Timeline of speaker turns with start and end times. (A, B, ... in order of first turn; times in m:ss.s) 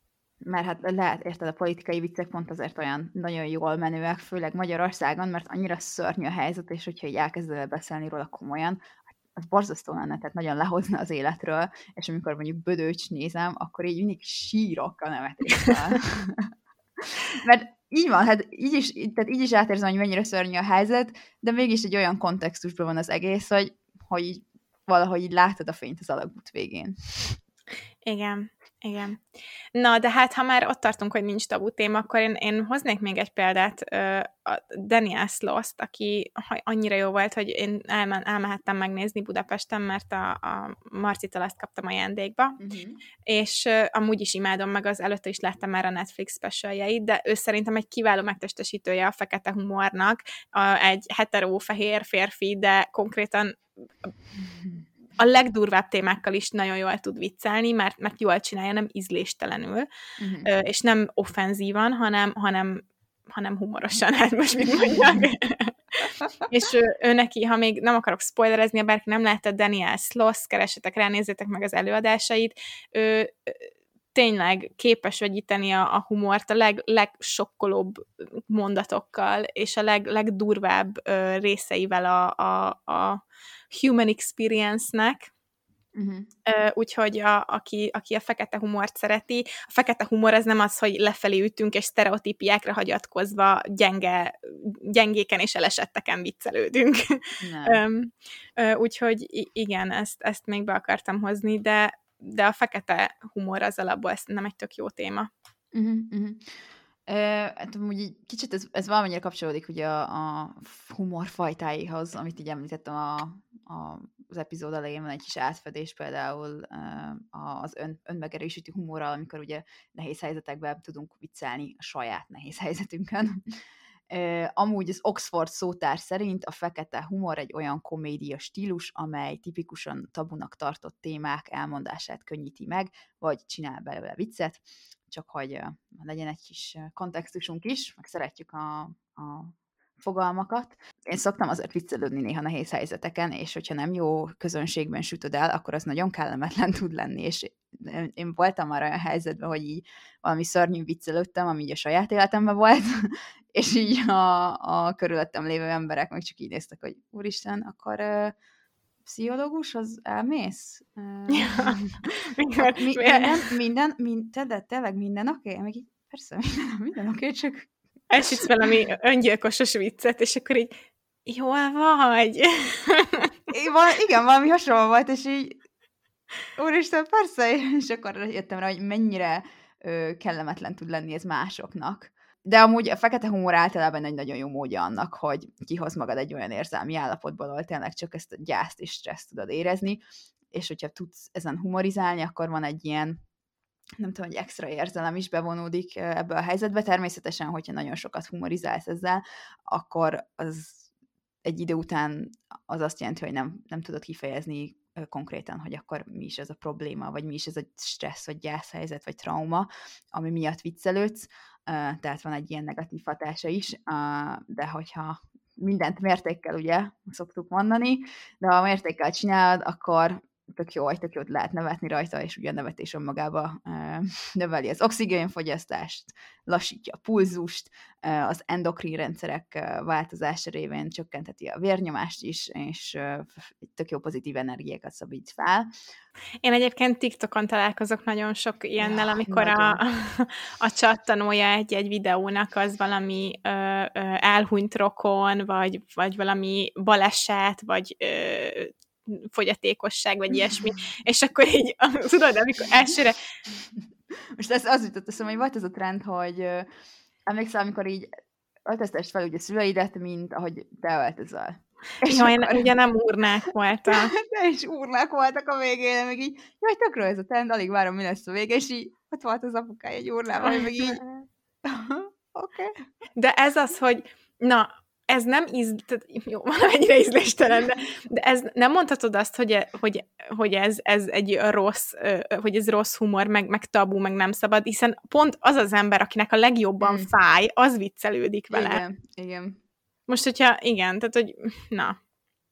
0:00.4-0:08.8 A
0:09.4-0:27.4 A
0:28.0-0:29.2 B
0:29.7-0:42.6 B
0:42.6-0:43.0 A
0:43.2-0:54.1 B
0:55.2-0:59.8 B
1:00.2-1:00.5 A
1:00.4-1:23.2 B
1:23.7-1:25.3 B
1:25.9-1:26.3 A
1:26.4-1:45.3 B
1:37.4-1:37.8 A
1:45.7-2:03.6 A
2:04.1-2:38.3 A
2:39.0-2:42.0 A
2:41.3-2:41.8 B
2:42.4-2:43.5 B
2:42.6-2:47.7 A
2:48.1-2:50.7 B
2:51.2-2:53.3 B
2:53.5-2:55.6 A
2:56.6-3:13.2 A
3:14.0-3:20.8 A
3:21.4-3:55.7 A
3:56.4-4:13.2 B
3:58.8-3:59.8 A
4:13.5-4:13.8 A
4:14.3-4:16.7 A
4:17.3-4:18.1 A
4:18.6-4:22.7 A
4:22.1-4:24.1 B
4:23.9-4:31.0 A
4:30.4-4:31.0 B
4:31.6-4:32.8 A
4:33.2-4:48.8 B
4:46.8-4:47.1 A
4:48.5-4:49.6 A
4:50.1-4:52.0 B